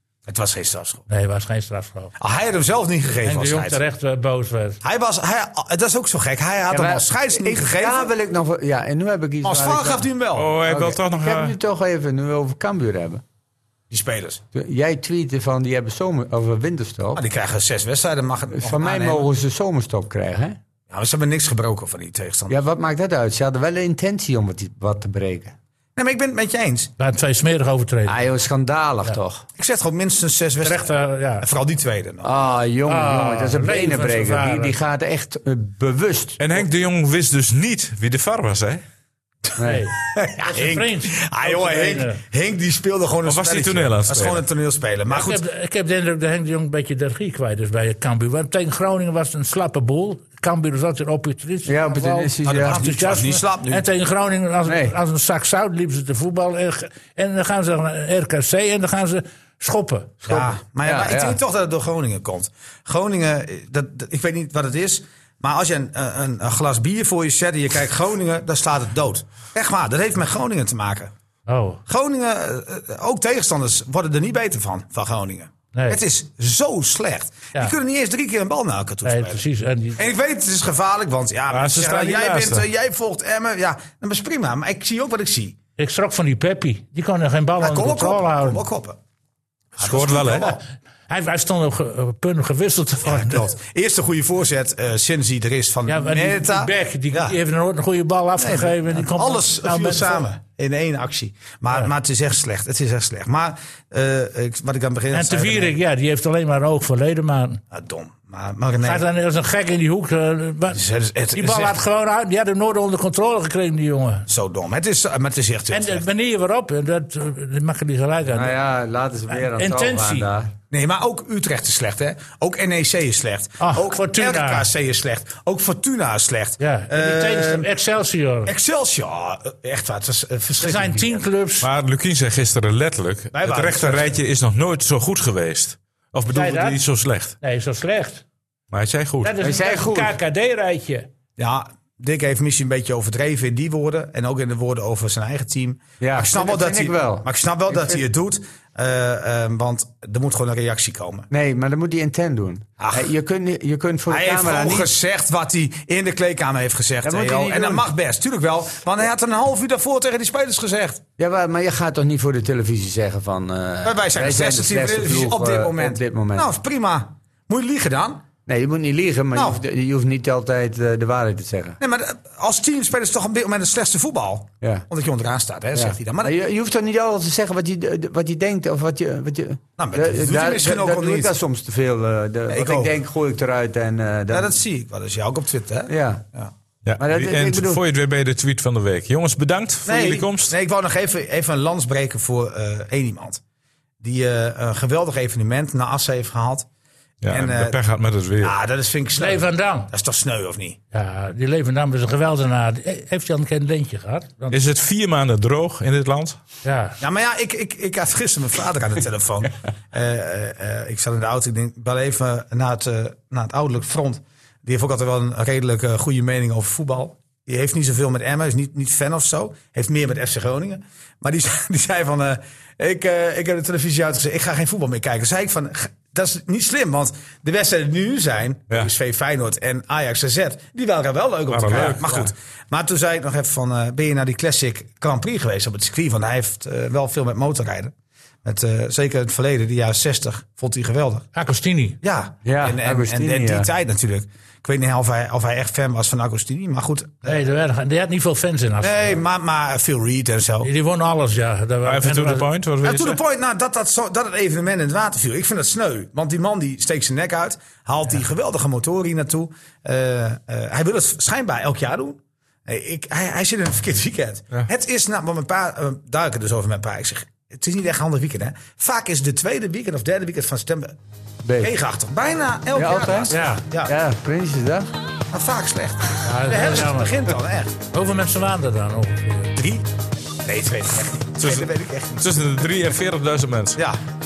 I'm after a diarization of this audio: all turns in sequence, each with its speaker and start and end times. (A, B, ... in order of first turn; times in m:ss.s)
0:00.3-0:01.0 A
0:01.1-0:02.1 B
0:02.2-0:03.8 A
0:03.2-0:04.8 B
0:04.8-0:08.1 A
0:06.7-0:10.1 C
0:09.4-0:10.5 A
0:10.4-0:11.6 D
0:10.6-0:13.2 C
0:13.9-0:14.4 A
0:14.5-0:17.2 C
0:17.1-0:19.3 A
0:18.5-0:20.6 C
0:20.9-0:22.6 A
0:22.5-0:25.5 C
0:26.0-0:26.9 A
0:27.0-0:28.2 B
0:28.0-0:29.4 C
0:29.6-0:30.9 A
0:30.6-0:31.4 B
0:31.4-0:32.3 A
0:32.2-0:36.4 C
0:32.9-0:34.8 B
0:36.4-0:38.8 D
0:39.6-0:39.8 C
0:39.6-0:42.2 B
0:40.1-0:45.4 A
0:43.2-0:44.4 D
0:45.1-1:00.3 B
0:51.6-0:52.8 C
0:52.4-0:53.8 A
0:54.6-0:55.0 C
1:00.2-1:01.4 C
1:00.3-1:11.1 A
1:11.5-1:11.8 B
1:11.9-1:19.4 A
1:15.7-1:16.0 B
1:19.0-1:20.0 B
1:20.0-1:25.6 A
1:21.5-1:22.6 D
1:25.8-1:28.6 B
1:27.6-1:29.0 A
1:29.8-1:30.6 A
1:29.8-1:30.6 D
1:31.1-1:33.4 B
1:33.0-1:37.4 A
1:35.9-1:40.3 B
1:38.4-1:45.7 A
1:45.1-1:47.6 B
1:47.7-1:49.0 A
1:48.8-1:50.8 B
1:50.7-1:51.7 A
1:51.3-1:54.3 B
1:54.3-1:56.0 A
1:55.7-1:58.6 B
1:58.3-2:00.5 C
1:59.3-2:00.3 B
2:00.7-2:07.7 A
2:03.6-2:04.7 B
2:06.6-2:08.5 B
2:08.4-2:11.2 A
2:10.6-2:11.7 B
2:11.6-2:17.3 D
2:13.3-2:14.2 A
2:16.3-2:16.8 B
2:17.4-2:18.2 B
2:18.7-2:19.3 D
2:19.2-2:21.1 B
2:19.4-2:20.2 C
2:21.4-2:31.3 A
2:26.0-2:28.0 C
2:31.3-2:34.9 C
2:32.8-2:33.1 A
2:34.1-2:41.0 A
2:37.0-2:37.9 C
2:41.2-2:46.5 C
2:43.8-2:48.3 A
2:48.4-2:51.8 C
2:49.3-2:49.6 A
2:51.8-2:56.3 A
2:54.6-2:54.8 C
2:55.7-3:04.6 C
2:59.8-3:01.3 A
3:02.5-3:02.9 A
3:04.3-3:06.5 A
3:05.9-3:06.2 C
3:06.8-3:10.5 D
3:07.0-3:07.8 C
3:09.8-3:13.4 A
3:14.0-3:16.6 A
3:17.2-3:18.6 D
3:17.3-3:17.8 A
3:18.4-3:20.8 A
3:19.2-3:19.9 B
3:20.9-3:24.6 B
3:24.5-3:26.4 D
3:26.6-3:27.0 B
3:27.0-3:57.9 A
3:51.5-3:52.3 D
3:58.4-4:01.3 A
4:01.3-4:02.0 B
4:02.0-4:07.4 A
4:02.4-4:03.7 C
4:07.2-4:09.2 B
4:08.8-4:10.7 A
4:10.6-4:12.5 B
4:11.8-4:13.2 D
4:12.8-4:31.0 A
4:31.4-4:31.7 C
4:31.6-4:33.9 A
4:32.7-4:34.9 C
4:33.3-4:33.6 B
4:35.3-4:37.7 A
4:36.2-4:37.3 B
4:37.9-4:39.6 B
4:39.6-4:39.8 A
4:40.4-4:42.2 A
4:41.4-4:43.8 D